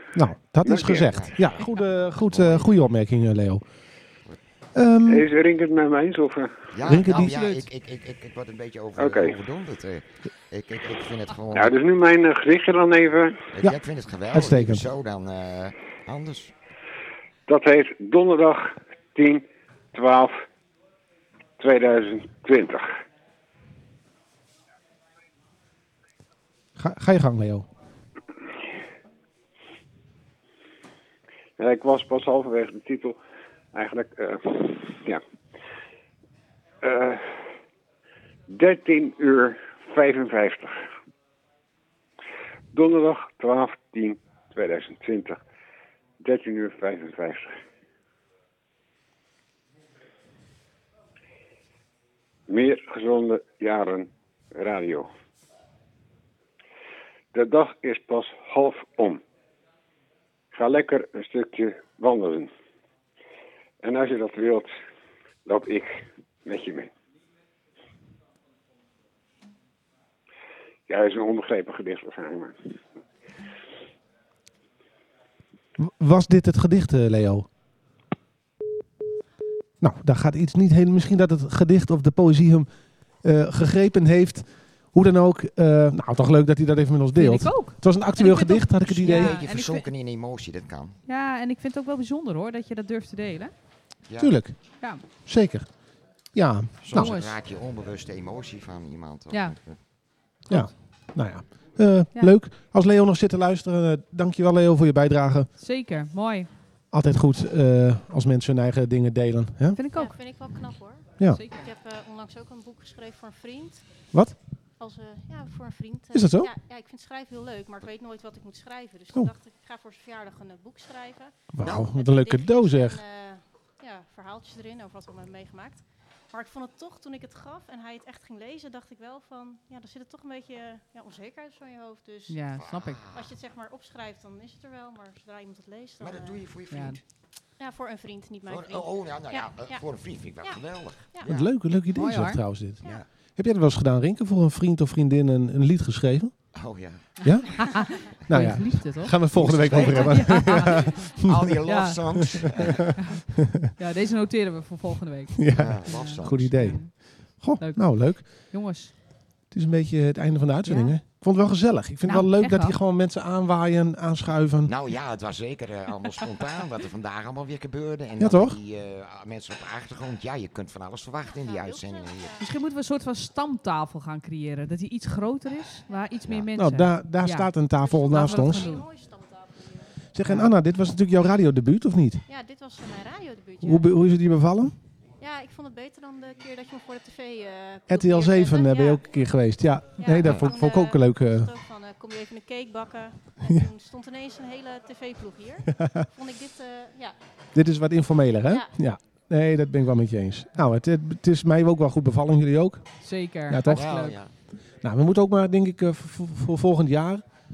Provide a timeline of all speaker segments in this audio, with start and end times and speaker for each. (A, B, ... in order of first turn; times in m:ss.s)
0:00.2-0:03.6 A
0:00.6-0:01.0 B
0:00.9-0:02.7 C
0:04.7-0:05.3 A
0:05.1-0:06.7 B
0:06.7-0:11.8 C
0:06.8-0:07.7 A
0:09.0-0:09.4 B
0:11.5-0:13.5 B
0:13.6-0:16.5 C
0:14.3-0:14.9 A
0:17.5-0:20.4 B
0:21.6-0:22.9 B
0:26.8-0:27.7 A
0:31.6-0:33.2 B
0:33.7-0:35.2 B
0:36.8-0:37.4 B
0:38.5-0:40.7 B
0:42.7-0:45.4 B
0:46.2-0:47.5 B
0:52.5-0:55.1 B
0:57.3-0:59.2 B
1:00.5-1:02.5 B
1:03.8-1:04.7 B
1:05.5-1:06.9 B
1:10.9-1:12.6 B
1:15.8-1:17.5 A
1:19.8-1:29.4 A
1:27.2-1:29.9 D
1:28.8-1:31.0 C
1:31.1-1:33.5 D
1:34.0-1:34.3 C
1:34.2-1:37.1 A
1:36.8-1:39.8 C
1:36.9-1:37.4 D
1:39.3-1:39.6 D
1:40.5-1:40.7 D
1:40.5-1:45.5 A
1:45.6-1:46.5 D
1:46.9-1:49.8 A
1:49.8-1:50.2 D
1:50.0-1:54.1 E
1:51.2-1:51.7 D
1:54.8-2:12.4 E
1:56.1-1:56.5 A
2:01.5-2:03.0 A
2:12.3-2:13.0 D
2:12.6-2:13.3 C
2:13.1-2:16.5 E
2:16.0-2:17.0 C
2:16.7-2:17.0 D
2:17.6-2:19.8 E
2:18.5-2:21.5 C
2:20.4-2:21.3 E
2:21.2-2:22.8 A
2:21.9-2:22.4 D
2:23.4-2:26.3 A
2:26.6-2:27.7 C
2:27.2-2:31.5 A
2:27.5-2:33.2 D
2:29.3-2:33.0 C
2:32.3-2:32.8 A
2:33.8-2:38.9 D
2:35.4-2:38.5 A
2:35.6-2:36.6 C
2:39.5-2:44.7 A
2:40.6-2:41.0 D
2:42.1-2:42.8 D
2:44.6-2:52.4 C
2:48.2-2:48.6 A
2:51.2-2:52.5 E
2:52.4-2:57.5 D
2:56.6-2:58.7 A
2:57.8-3:00.0 E
2:58.0-2:58.9 D
3:00.2-3:02.2 A
3:00.2-3:00.5 D
3:02.3-3:03.9 E
3:03.6-3:04.7 A
3:05.2-3:09.1 E
3:07.9-3:11.5 A
3:10.0-3:17.2 E
3:10.2-3:10.5 C
3:17.6-3:22.8 A
3:18.4-3:18.7 E
3:23.0-3:24.2 D
3:23.5-3:23.9 A
3:23.7-3:24.3 C
3:24.8-3:27.2 A